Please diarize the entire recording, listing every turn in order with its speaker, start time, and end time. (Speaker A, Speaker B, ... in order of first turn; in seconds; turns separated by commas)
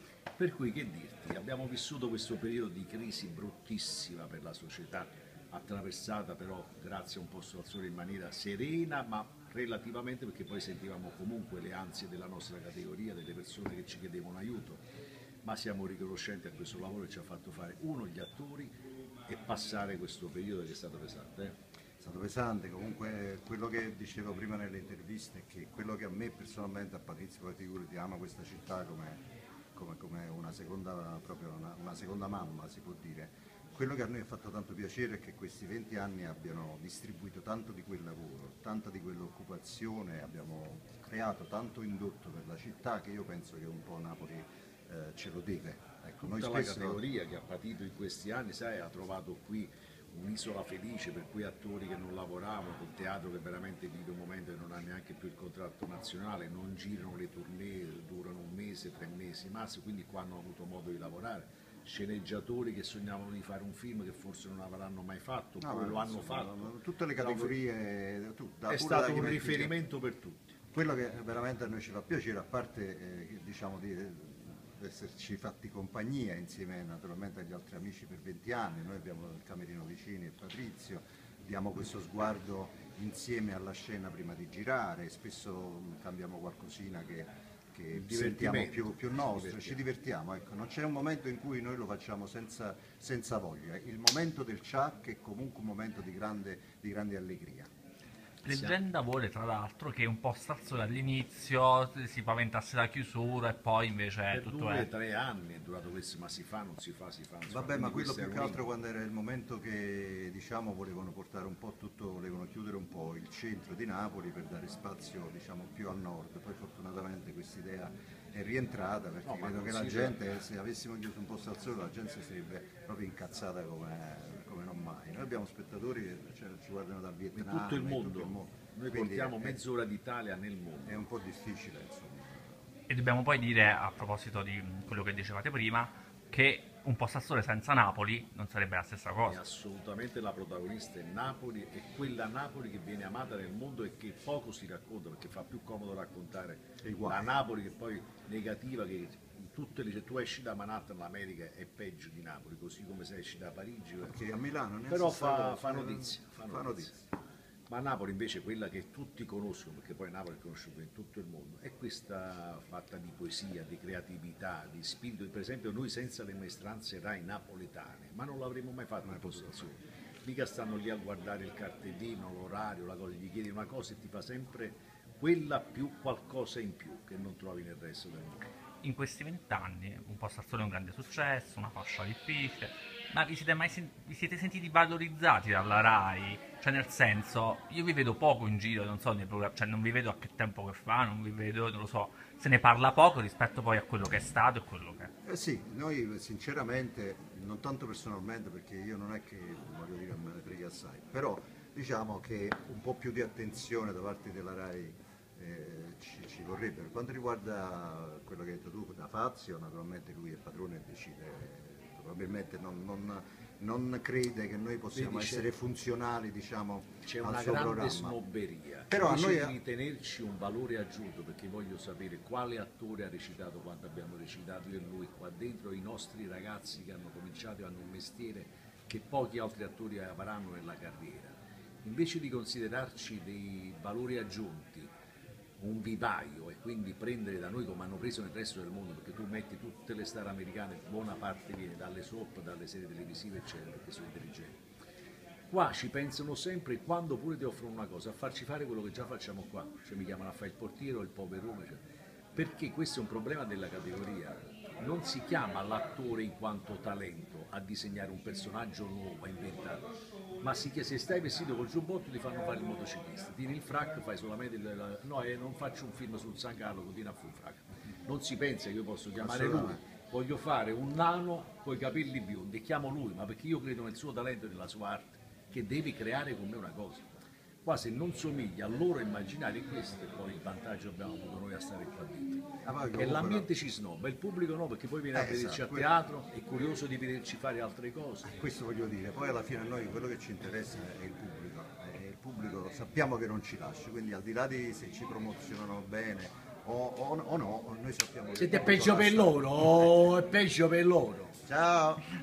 Speaker A: 0.4-14.8, Speaker A: 15.4-18.7, Speaker A: 19.3-21.6, Speaker B: 22.0-29.2, Speaker B: 29.7-47.0, Speaker A: 46.2-67.6, Speaker B: 65.6-69.8, Speaker A: 68.7-70.5, Speaker B: 70.7-97.7, Speaker A: 87.9-89.8, Speaker C: 98.4-104.9, Speaker A: 98.4-98.8, Speaker A: 104.3-108.7, Speaker B: 107.5-129.6, Speaker A: 119.2-120.2, Speaker A: 127.3-131.1, Speaker B: 130.8-132.6, Speaker C: 132.9-139.4, Speaker A: 139.2-154.2, Speaker B: 146.8-147.3, Speaker B: 154.0-157.0, Speaker A: 154.9-156.9, Speaker A: 157.7-178.4, Speaker B: 169.0-169.7, Speaker C: 178.8-195.1, Speaker B: 195.2-218.2, Speaker A: 214.9-215.4, Speaker A: 217.1-234.9, Speaker B: 218.9-219.6, Speaker A: 235.6-244.6, Speaker A: 245.5-251.8, Speaker A: 252.3-259.9, Speaker A: 260.4-288.3, Speaker B: 269.2-269.8, Speaker B: 282.6-283.5, Speaker B: 285.1-285.9, Speaker B: 288.2-299.9, Speaker A: 298.4-301.3, Speaker B: 301.4-302.1